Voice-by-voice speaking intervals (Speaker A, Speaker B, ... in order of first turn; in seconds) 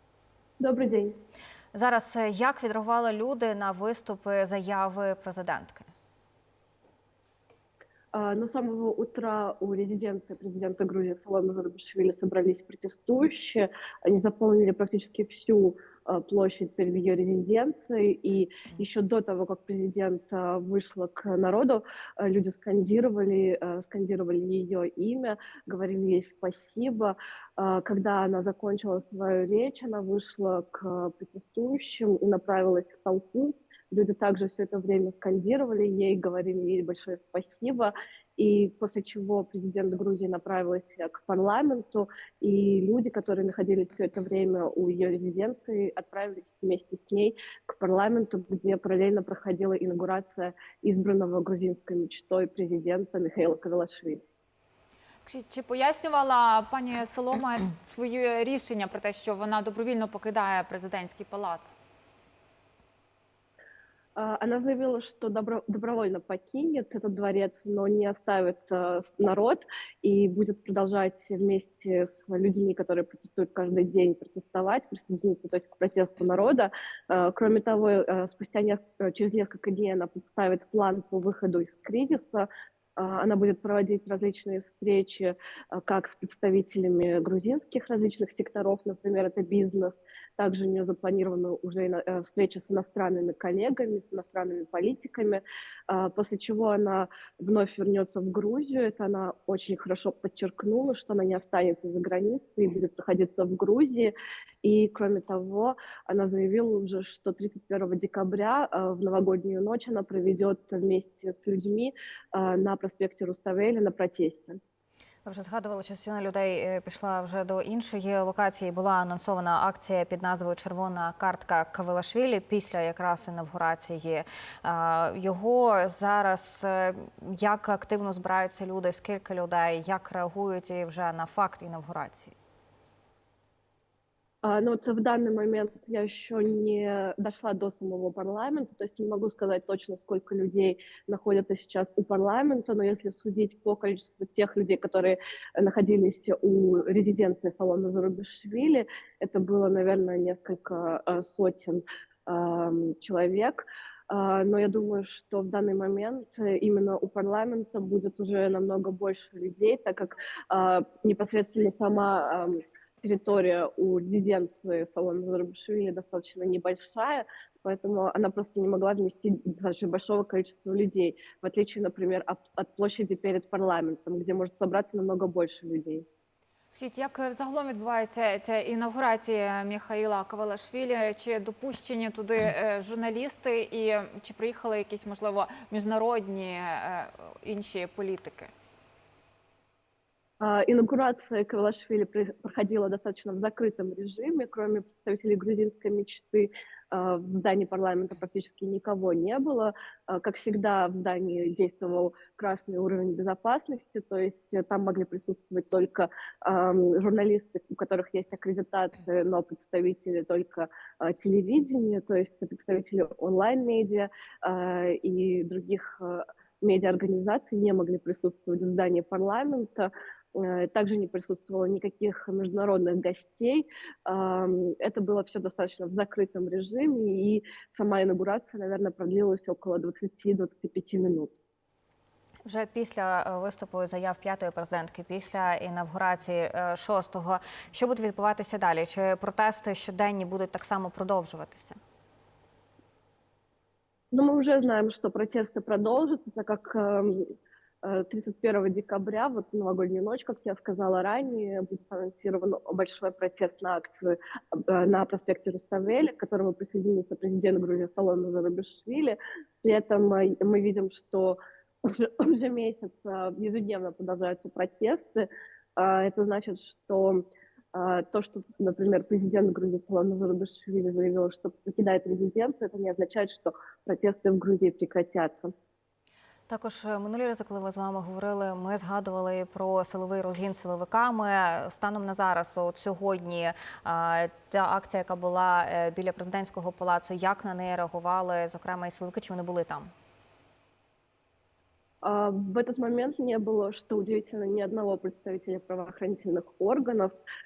Speaker A: 0.6-1.2, 8.1-54.2, 64.2-114.6, 134.4-176.1, 190.4-231.3, 244.1-275.5, 292.0-297.2
Speaker B: 1.7-5.9, 115.2-132.3, 232.4-241.8, 276.5-289.9
Speaker C: 55.2-61.8, 176.7-188.5